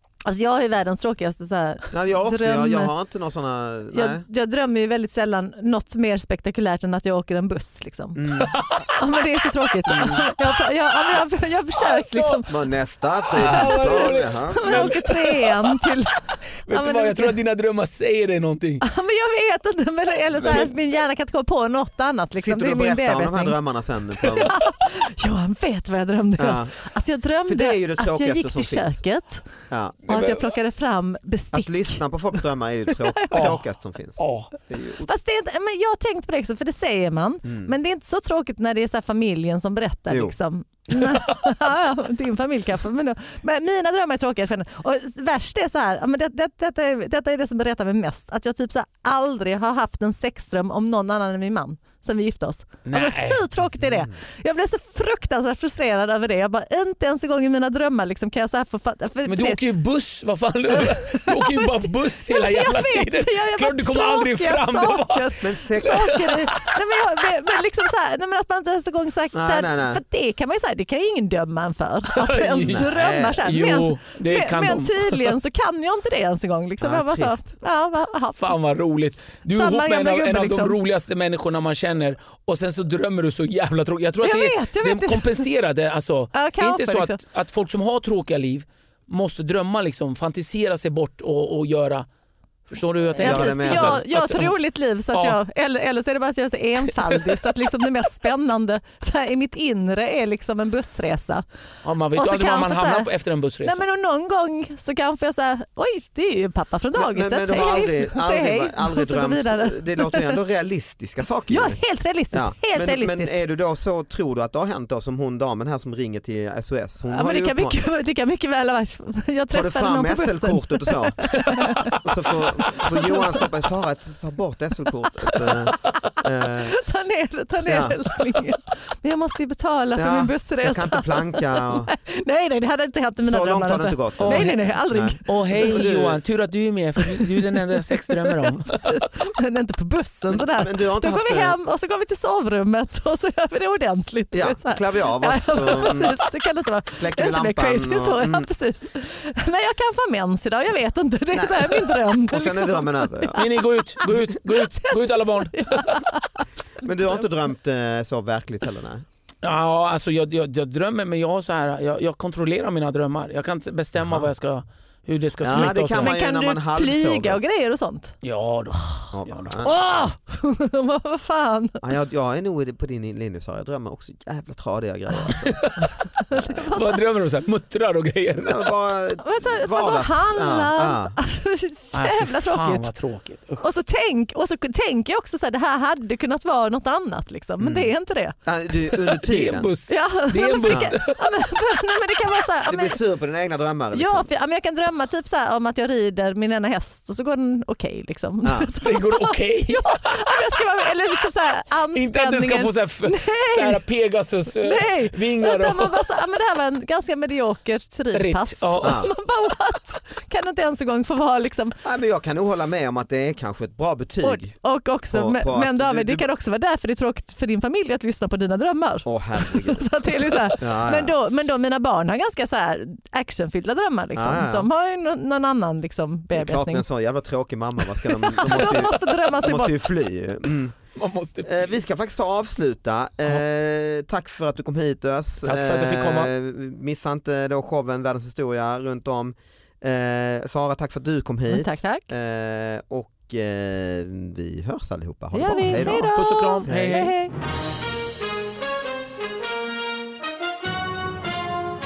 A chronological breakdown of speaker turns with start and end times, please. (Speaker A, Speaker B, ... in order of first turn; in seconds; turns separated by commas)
Speaker A: 0.2-2.9, Speaker B: 1.9-4.2, Speaker A: 3.9-8.3, Speaker B: 8.2-8.6, Speaker C: 8.4-8.9, Speaker A: 8.9-12.5, Speaker B: 9.9-10.2, Speaker C: 11.9-12.4, Speaker B: 12.4-15.0, Speaker C: 13.3-15.9, Speaker A: 13.4-17.4, Speaker C: 16.6-18.8, Speaker A: 18.8-23.6, Speaker B: 20.4-20.7, Speaker B: 22.4-24.6, Speaker A: 24.2-29.5, Speaker B: 26.4-26.7, Speaker B: 27.5-29.0, Speaker B: 29.7-30.0, Speaker A: 30.1-32.0, Speaker C: 30.1-30.4, Speaker B: 31.5-35.1, Speaker A: 33.1-33.5, Speaker C: 33.3-33.6, Speaker C: 34.2-34.5, Speaker A: 35.0-59.6, Speaker B: 37.5-37.7, Speaker B: 40.1-40.4, Speaker C: 52.9-53.5, Speaker B: 53.8-54.1, Speaker C: 59.3-66.5, Speaker A: 60.7-78.5, Speaker B: 65.4-66.2, Speaker B: 69.3-70.0, Speaker C: 72.1-72.9, Speaker B: 72.6-73.4, Speaker C: 73.4-75.4, Speaker B: 76.8-77.5, Speaker C: 78.4-92.1, Speaker A: 79.5-80.8, Speaker A: 84.2-85.5, Speaker A: 86.3-87.2, Speaker C: 92.7-94.5, Speaker A: 93.2-101.5, Speaker B: 93.2-94.4, Speaker C: 95.1-95.4, Speaker C: 97.2-97.5, Speaker C: 101.8-103.8, Speaker A: 102.2-103.1, Speaker A: 103.6-110.4, Speaker B: 107.0-111.8, Speaker A: 111.5-113.3, Speaker B: 112.3-117.8, Speaker A: 117.1-122.0, Speaker B: 119.5-121.3, Speaker C: 121.3-122.9, Speaker B: 122.0-126.8, Speaker A: 126.7-135.8, Speaker B: 127.7-128.0, Speaker B: 130.0-131.9, Speaker B: 133.2-136.2, Speaker C: 134.2-139.0, Speaker A: 137.1-157.1, Speaker B: 140.3-141.6, Speaker B: 144.3-146.2, Speaker B: 146.9-148.5, Speaker B: 151.3-153.4, Speaker C: 153.3-156.1, Speaker B: 156.8-159.1, Speaker C: 159.4-166.2, Speaker B: 164.0-164.3, Speaker B: 165.4-167.4, Speaker A: 166.0-168.2, Speaker C: 168.2-169.4, Speaker A: 168.7-169.1, Speaker B: 169.1-169.8, Speaker A: 169.6-171.8, Speaker B: 171.8-175.7, Speaker C: 175.5-176.0, Speaker A: 175.9-177.0, Speaker B: 176.3-176.7, Speaker C: 176.7-178.7, Speaker B: 178.4-181.2, Speaker A: 179.2-182.9, Speaker C: 181.9-183.6, Speaker A: 183.6-188.3, Speaker B: 187.6-187.9, Speaker B: 188.4-189.7, Speaker C: 189.1-191.3, Speaker A: 189.9-193.0, Speaker B: 192.7-194.3, Speaker A: 193.9-203.8, Speaker B: 198.4-198.7, Speaker C: 198.8-200.2, Speaker C: 201.9-206.0, Speaker A: 204.6-211.8, Speaker C: 208.1-209.0, Speaker B: 208.8-209.1, Speaker B: 211.8-214.6, Speaker A: 214.2-226.8, Speaker B: 215.1-216.3, Speaker B: 219.1-219.9, Speaker B: 220.6-221.2, Speaker B: 224.2-224.7, Speaker B: 226.3-230.8, Speaker A: 228.1-229.9, Speaker C: 228.6-228.8, Speaker C: 230.9-231.7, Speaker B: 231.4-246.1, Speaker C: 235.4-236.3, Speaker A: 241.5-242.1, Speaker A: 245.3-247.3, Speaker C: 245.7-247.2, Speaker B: 246.6-247.0